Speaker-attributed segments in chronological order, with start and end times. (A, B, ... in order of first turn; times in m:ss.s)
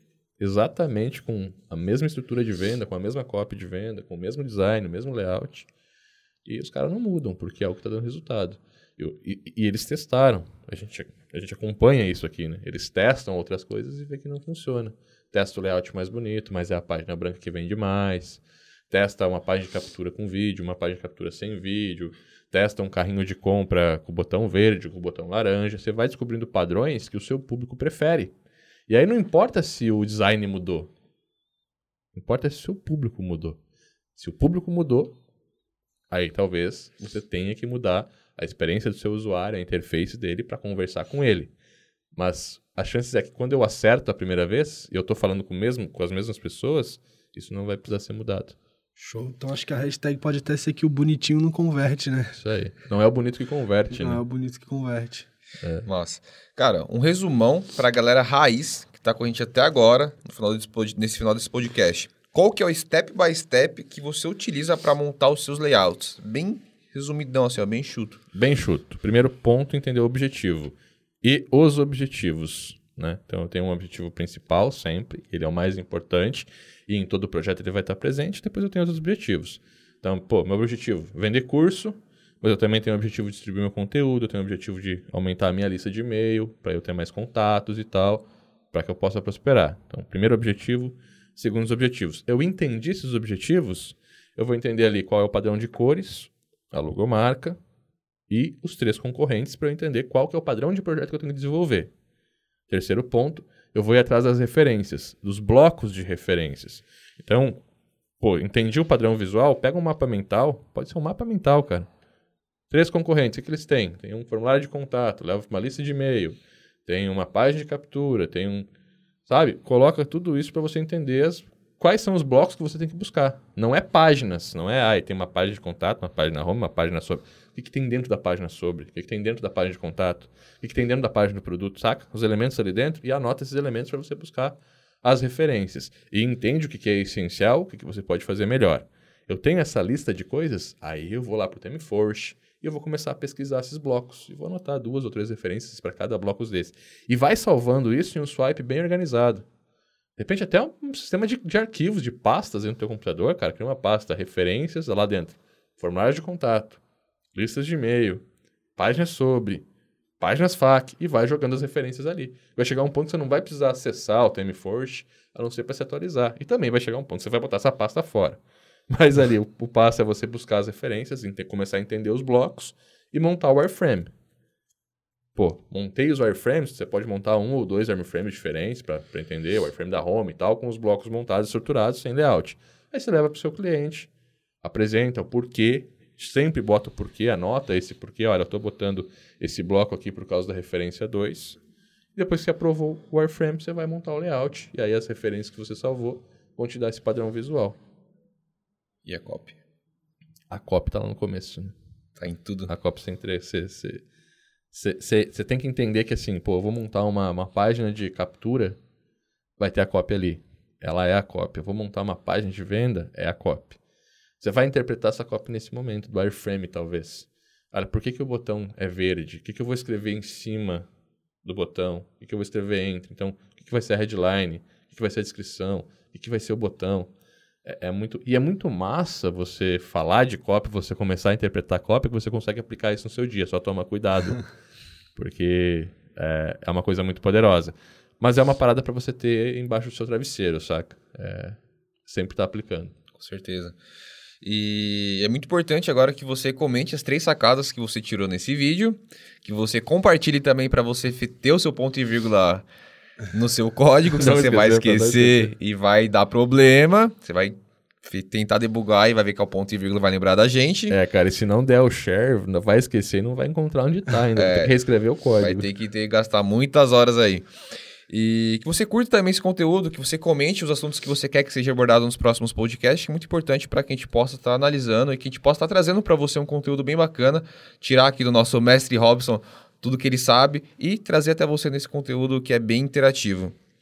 0:00.4-0:05.7 A
0:06.4-0:28.3 A
0:28.9-0:30.9 A
0:32.1-0:33.6 A
0:34.1-0:35.2 A
0:36.1-0:41.5 A
0:42.1-0:48.6 A
0:49.0-0:52.4 B
0:52.4-0:54.2 A
0:53.9-0:55.3 B
0:55.6-0:55.9 A
0:55.8-1:08.2 C
1:08.3-1:37.6 A
1:38.3-1:41.9 A
1:42.7-1:47.6 A
1:48.2-1:51.9 A
1:52.7-1:58.7 A
1:59.3-2:29.4 A
2:30.2-2:36.8 A
2:37.3-2:38.2 A
2:38.8-2:39.6 A
2:40.2-2:54.1 A
2:55.3-3:04.1 A
3:04.6-3:11.6 A
3:12.2-3:17.8 A
3:19.0-3:19.6 C
3:20.5-3:21.7 A
3:22.2-3:22.7 C
3:22.7-3:24.0 A
3:24.7-3:28.8 A
3:29.6-3:33.8 A
3:34.4-3:40.9 A
3:41.4-3:47.1 A
3:47.6-3:54.4 A
3:55.1-4:02.9 A
4:03.1-4:03.7 C
4:04.4-4:12.6 C
4:13.3-4:21.0 C
4:14.2-4:15.5 A
4:20.9-4:25.7 A
4:24.3-4:24.7 C
4:25.4-4:27.4 C
4:28.1-4:43.6 C